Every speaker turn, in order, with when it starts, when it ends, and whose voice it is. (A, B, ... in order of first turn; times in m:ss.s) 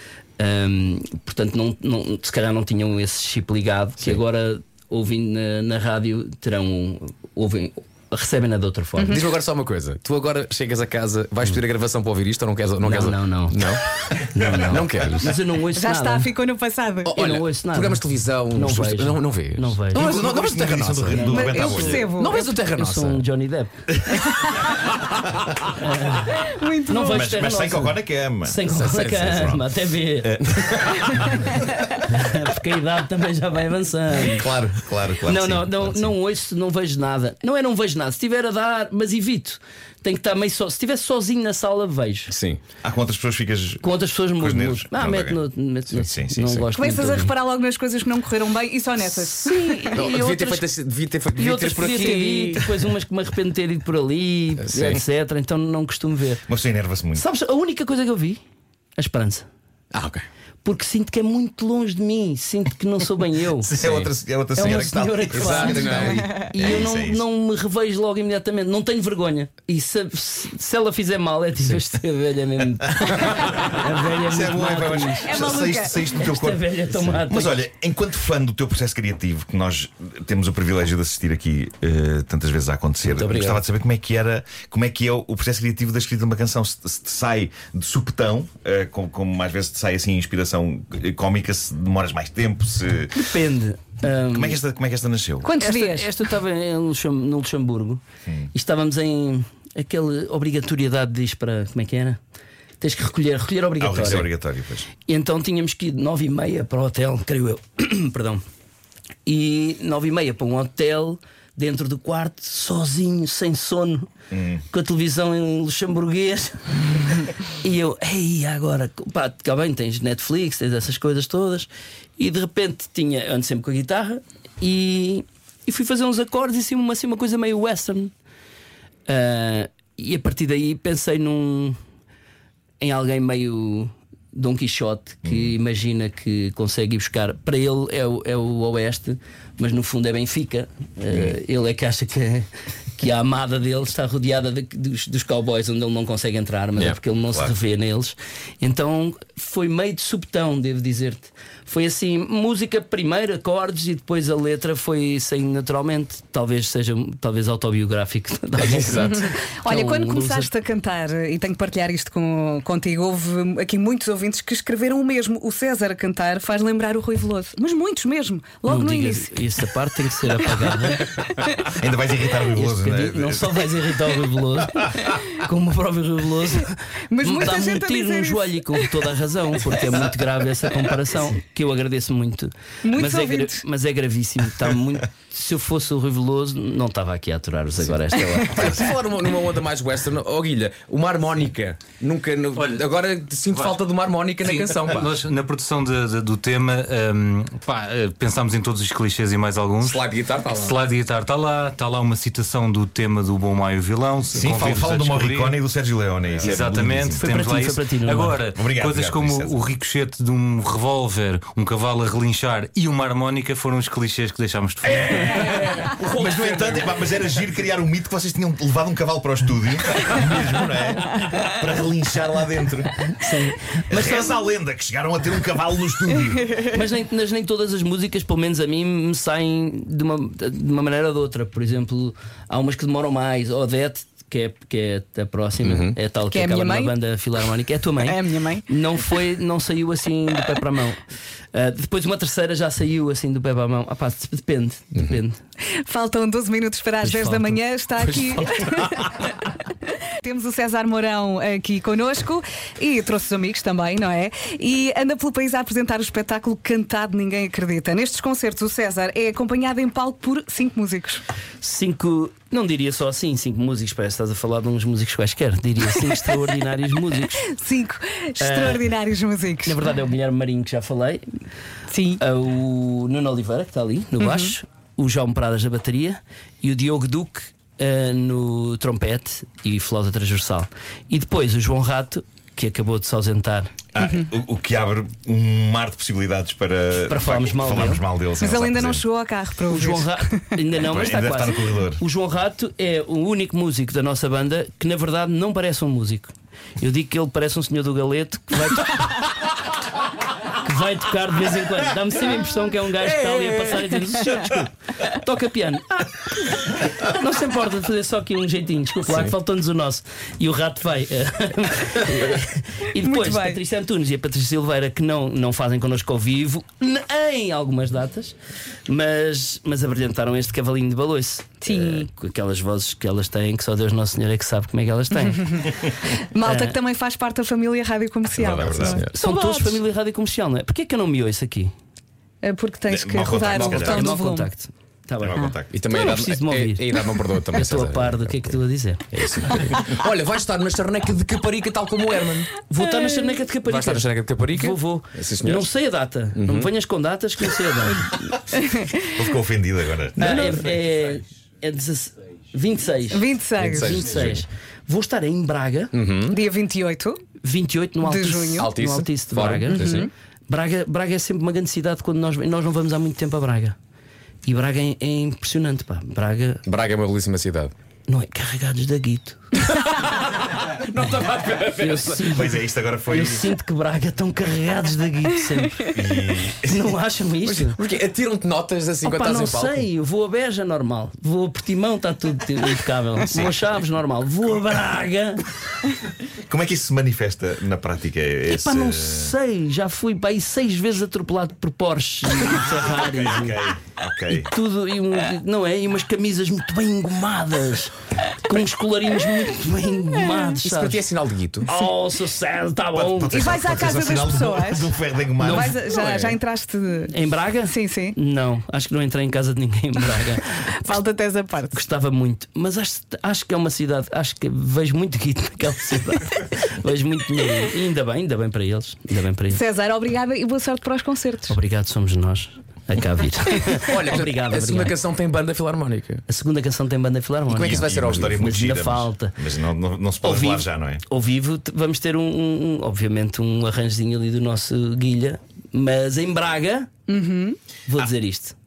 0:00.4-0:09.2 A
0:09.0-0:13.8 B
0:12.8-0:13.7 A
0:14.3-0:16.4 A
0:14.5-0:15.4 B
0:15.8-0:17.2 C
0:17.0-0:23.2 B
0:17.1-0:20.1 A
0:19.9-0:22.0 D
0:21.1-0:22.1 A
0:21.2-0:22.6 C
0:22.7-0:23.8 A
0:25.8-0:31.4 A
0:26.3-0:27.3 C
0:27.1-0:30.9 D
0:28.7-0:29.2 B
0:32.0-0:34.5 A
0:34.2-0:36.1 D
0:35.2-0:42.3 A
0:42.3-0:42.6 B
0:42.8-0:46.7 D
0:43.8-0:47.3 A
0:46.7-0:50.4 C
0:49.1-0:50.6 A
0:50.0-0:52.8 B
0:51.4-0:56.4 A
0:54.6-0:55.0 B
0:56.5-0:57.2 D
0:57.2-0:58.4 A
0:59.0-0:59.5 A
0:59.9-1:00.2 B
1:00.6-1:03.7 A
1:03.6-1:07.2 D
1:03.8-1:04.1 B
1:04.6-1:17.6 A
1:05.3-1:06.3 B
1:05.8-1:06.3 C
1:14.2-1:33.2 D
1:15.2-1:16.0 C
1:23.1-1:23.6 A
1:33.2-1:34.6 A
1:34.3-1:35.5 D
1:35.4-1:36.1 C
1:35.6-1:38.0 A
1:38.5-1:42.2 A
1:42.8-1:44.3 A
1:43.8-1:44.9 D
1:45.0-1:48.4 A
1:49.3-1:54.1 A
1:54.3-1:54.6 D
1:54.7-2:08.1 A
2:09.1-2:11.8 A
2:12.8-2:40.5 A
2:38.6-2:39.3 B
2:39.1-2:49.4 C
2:48.7-2:51.2 A
2:51.8-2:53.7 D
2:52.5-3:08.6 A
2:57.1-2:59.0 C
3:02.8-3:03.6 C
3:08.4-3:15.1 B
3:12.6-3:12.9 E
3:13.5-3:13.8 E
3:14.4-3:25.6 E
3:19.8-3:20.8 B
3:24.3-3:27.2 D
3:26.4-3:35.8 E
3:27.2-3:28.4 A
3:28.6-3:29.7 D
3:35.0-3:36.9 B
3:35.1-3:43.1 D
3:43.2-3:44.4 A
3:43.9-3:46.6 D
3:46.7-4:01.0 A
3:55.6-3:56.0 B
3:56.3-3:56.9 C
3:58.0-3:58.6 C
4:01.5-4:05.4 A
4:05.7-4:21.2 C
4:08.1-4:08.9 B
4:21.6-4:27.5 A
4:27.4-4:29.8 C
4:28.4-4:28.9 A
4:29.6-4:31.2 A
4:31.9-4:32.2 C
4:32.2-4:43.7 A
4:34.2-4:34.5 C
4:43.9-4:49.0 D
4:47.0-4:48.0 A
4:48.4-4:50.5 C
4:49.7-4:59.3 A
4:50.8-4:52.0 D
5:00.5-5:18.4 A
5:03.4-5:03.7 B
5:13.0-5:13.6 C
5:18.9-5:25.7 A
5:21.6-5:22.1 C
5:25.2-5:29.8 C
5:26.4-5:26.8 A
5:28.3-5:29.0 D
5:28.5-5:29.1 B
5:29.1-5:31.7 A
5:32.4-5:34.5 C
5:32.9-5:34.1 D
5:33.6-5:36.9 A
5:35.2-5:35.8 D
5:35.7-5:38.6 B
5:37.5-5:39.1 A
5:39.1-5:42.5 B
5:42.7-5:48.2 A
5:43.6-5:45.7 B
5:46.4-5:46.7 B
5:48.5-5:49.0 C
5:49.1-5:50.5 D
5:50.2-5:55.9 A
5:50.3-5:50.6 B
5:53.1-5:54.0 C
5:53.6-5:54.4 B
5:55.9-5:56.4 B
5:56.3-5:57.2 C
5:57.4-6:03.8 A
5:58.0-5:58.7 C
5:58.6-6:00.1 B
5:59.7-6:00.1 C
6:04.4-6:06.6 A
6:06.7-6:07.7 B
6:08.1-6:09.6 A
6:09.7-6:12.4 B
6:11.8-6:17.8 A
6:12.3-6:13.5 D
6:15.9-6:16.9 D
6:17.4-6:19.9 B
6:19.0-6:25.5 A
6:23.3-6:23.6 D
6:26.5-6:29.4 D
6:28.5-6:33.6 A
6:32.4-6:34.5 D
6:34.3-6:41.0 A
6:40.5-6:41.7 B
6:41.6-6:43.7 A
6:42.9-6:45.8 D
6:43.3-6:47.1 C
6:45.4-6:45.8 A
6:46.0-6:46.4 B
6:47.1-6:50.6 A
6:47.7-6:48.2 C
6:50.7-6:51.8 C
6:51.7-6:59.6 A
6:59.5-7:01.6 C
7:01.5-7:05.0 A
7:03.9-7:06.2 B
7:06.3-7:09.4 A
7:07.5-7:08.5 B
7:07.6-7:11.0 D
7:10.2-7:16.9 A
7:17.1-7:17.6 C
7:17.9-7:18.6 A